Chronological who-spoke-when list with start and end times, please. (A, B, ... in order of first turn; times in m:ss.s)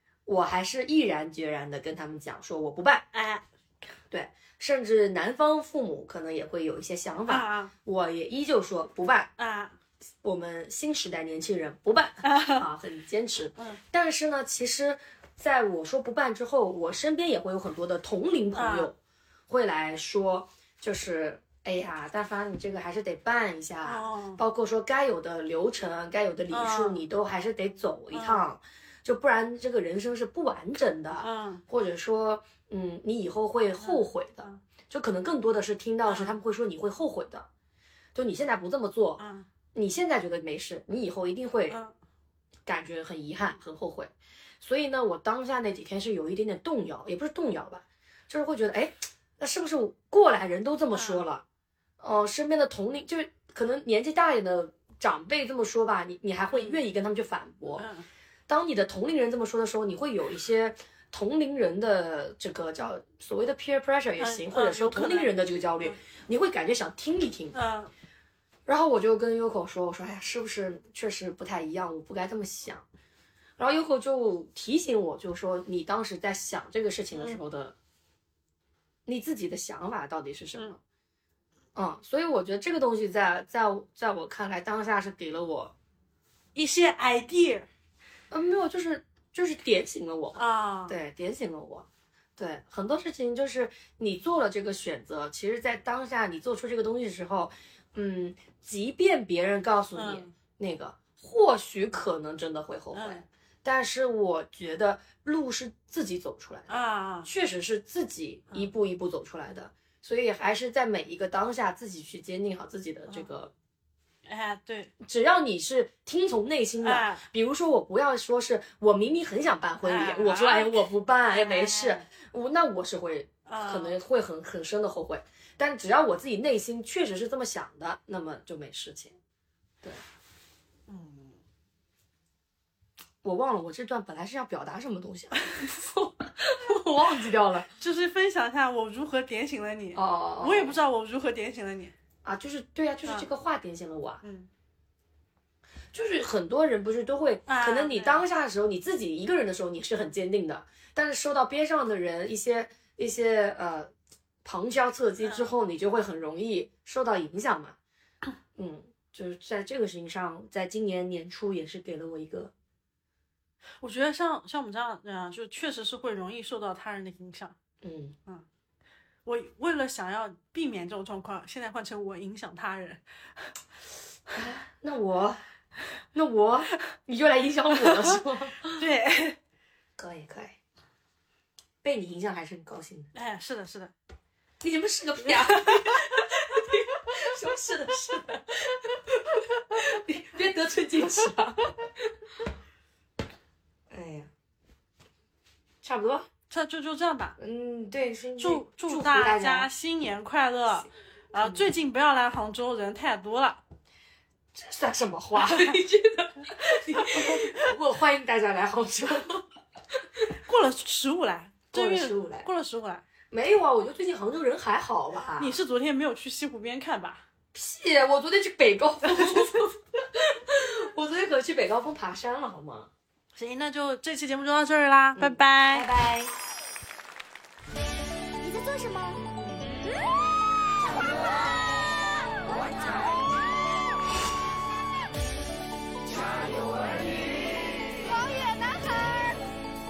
0:00.3-0:03.0 A
0:03.1-0:03.4 B
0:04.1-0:09.3 A
0:07.3-0:07.7 B
0:09.4-0:09.8 B
0:10.2-0:19.0 A
0:12.2-0:12.6 B
0:18.6-0:18.9 B
0:19.5-0:37.5 A
0:23.8-0:24.4 B
0:26.5-0:27.0 B
0:28.1-0:28.5 B
0:31.2-0:31.6 B
0:33.8-0:34.6 B
0:36.1-0:36.4 B
0:38.2-0:39.2 A
0:39.2-0:39.5 B
0:39.7-0:41.8 A
0:41.7-0:41.9 B
0:42.7-0:51.4 A
0:50.9-0:51.2 B
0:52.0-0:57.9 A
0:57.8-0:58.1 B
0:58.5-1:07.6 A
1:04.2-1:06.0 B
1:07.5-1:07.9 B
1:08.7-1:12.8 A
1:13.6-1:17.8 A
1:17.2-1:17.4 B
1:19.1-1:20.8 A
1:21.8-1:25.7 A
1:26.6-1:27.7 B
1:28.3-1:53.5 A
1:30.4-1:31.0 B
1:40.0-1:40.3 B
1:42.9-1:43.3 B
1:46.7-1:47.3 B
1:54.3-1:54.9 B
1:55.0-2:09.2 A
1:56.8-1:57.2 B
1:59.8-2:02.1 B
2:03.5-2:04.0 B
2:10.9-2:11.4 B
2:13.2-2:17.7 A
2:17.8-2:22.0 B
2:20.0-2:20.8 A
2:22.2-2:24.2 A
2:24.2-2:24.5 B
2:25.9-2:33.9 A
2:27.5-2:28.2 B
2:34.4-2:37.8 A
2:35.2-2:35.5 B
2:38.6-2:42.5 A
2:43.8-2:47.6 B
2:47.8-2:48.2 A
2:49.3-2:53.0 B
2:54.3-2:55.4 A
2:56.1-2:58.8 A
2:58.8-2:59.4 B
3:00.0-3:00.6 A
3:01.8-3:03.1 A
3:03.1-3:03.9 B
3:04.6-3:12.1 A
3:05.5-3:05.8 B
3:13.9-3:14.3 A
3:15.8-3:16.3 A
3:16.5-3:17.4 B
3:17.4-3:19.7 A
3:18.4-3:23.6 B
3:21.4-3:21.7 A
3:24.5-3:29.4 A
3:25.4-3:25.8 B
3:27.0-3:27.5 B
3:30.5-3:33.0 B
3:31.7-3:32.5 A
3:33.3-3:35.6 A
3:35.4-3:37.2 B
3:37.5-3:42.9 A
3:39.1-3:39.5 B
3:43.4-3:45.9 B
3:45.2-3:46.3 A
3:48.4-3:49.3 C
3:50.9-3:51.2 C
3:52.5-3:53.1 C
3:58.0-3:59.4 C